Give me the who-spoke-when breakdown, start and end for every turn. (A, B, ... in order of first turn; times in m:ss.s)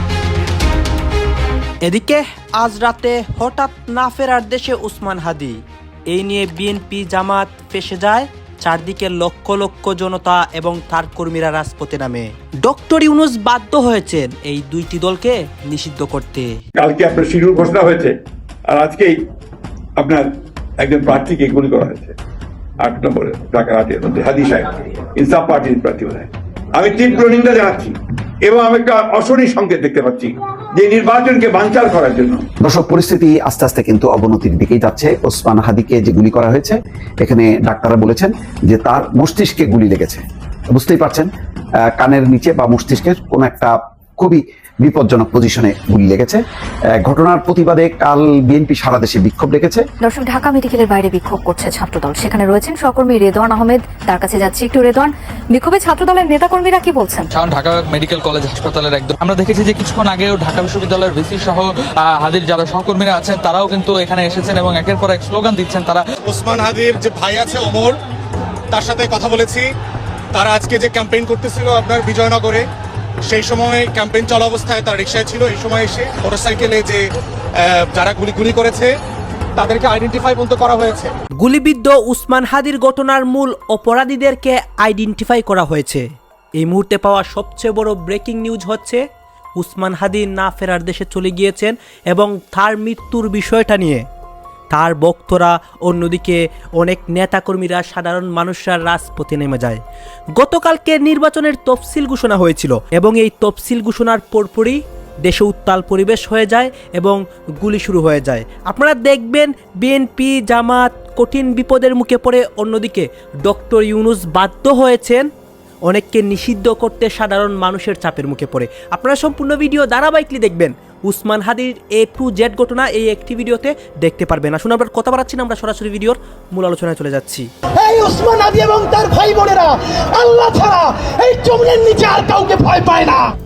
0:01.9-0:05.6 A
0:06.1-0:16.5 A
0:16.8-0:18.2 B
0:18.7-0:19.1 B
0:20.0-0:20.3 B
0:20.8-0:22.2 B
0:22.8-0:32.4 B
0:32.6-0:49.9 C
0:50.0-0:57.3 D
0:57.3-1:06.1 E
1:06.3-1:07.9 F
1:08.7-1:09.6 F
1:10.4-1:12.6 F
1:13.3-1:17.0 F
1:17.9-1:18.9 F
1:19.6-1:21.1 F
1:21.4-1:26.0 A
1:26.6-1:29.0 A
1:29.6-1:34.0 A
1:34.7-1:39.8 A
1:40.4-1:55.3 A
1:55.9-2:07.4 A
2:07.8-2:13.3 G